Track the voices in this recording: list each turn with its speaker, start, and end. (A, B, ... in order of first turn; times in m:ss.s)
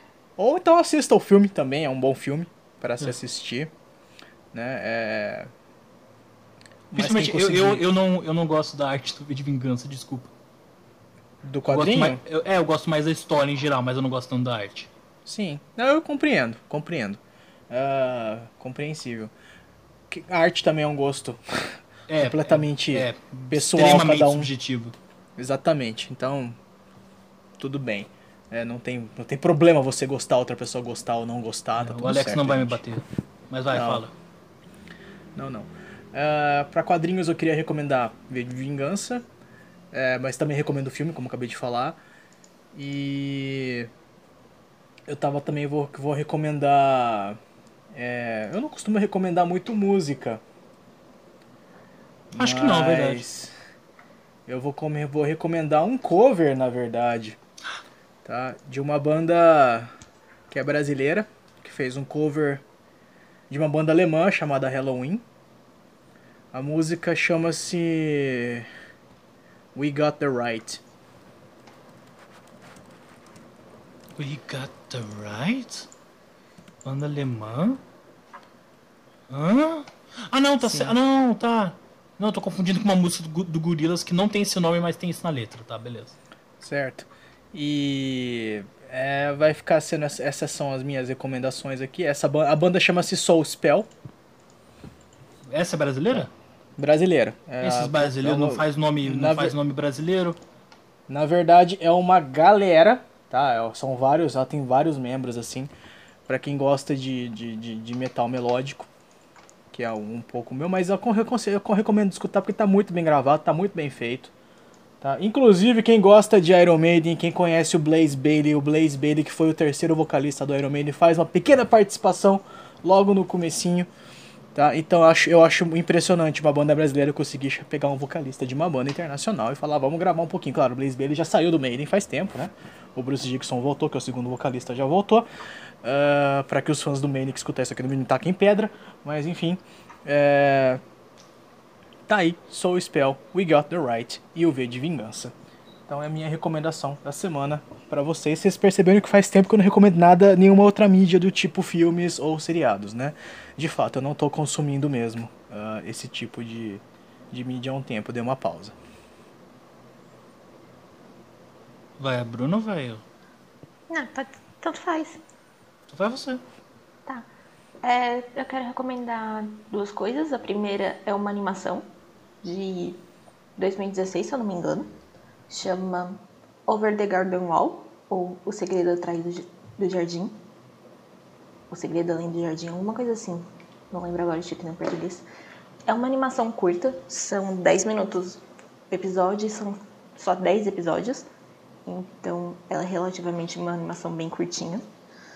0:00.4-0:03.7 A
0:04.5-0:05.5 A
0:06.9-0:07.8 A
0:06.9-0:10.3 B
0:11.4-0:12.2 A
0:11.7-0:14.9 B
0:15.3-0:19.3 A
0:20.1-0:24.5 A
0:22.1-0:24.9 B
0:25.4-0:26.6 A
0:27.6-0:32.8 A
0:31.8-0:34.1 B
0:33.7-0:34.0 A
0:35.4-0:39.2 A
0:39.9-0:42.0 A
0:42.7-0:43.9 A
0:45.1-0:47.4 A
0:47.9-0:50.4 A
0:52.3-0:53.2 B
0:52.4-0:53.5 A
0:54.5-0:57.4 A
0:58.2-0:59.9 A
1:00.5-1:02.6 A
1:03.5-1:05.2 A
1:06.5-1:08.7 A
1:09.7-1:10.8 A
1:14.2-1:15.9 B
1:16.8-1:17.8 B
1:19.3-1:26.2 B
1:20.6-1:21.0 A
1:26.6-1:33.9 A
1:35.5-1:36.3 B
1:36.1-1:39.6 A
1:37.6-1:40.4 B
1:41.1-1:45.7 A
1:46.3-1:48.9 A
1:49.7-1:54.3 A
1:55.0-2:03.9 A
2:04.5-2:15.3 A
2:15.8-2:20.8 A
2:22.1-2:25.3 A
2:25.9-2:38.8 A
2:42.0-2:43.0 B
2:43.9-2:45.2 C
2:45.9-2:46.4 B
2:47.8-2:51.8 C
2:52.4-2:53.0 C
2:53.6-2:54.9 C
2:55.5-3:00.4 C
3:01.7-3:05.2 C
3:05.9-3:11.3 C
3:11.9-3:14.8 C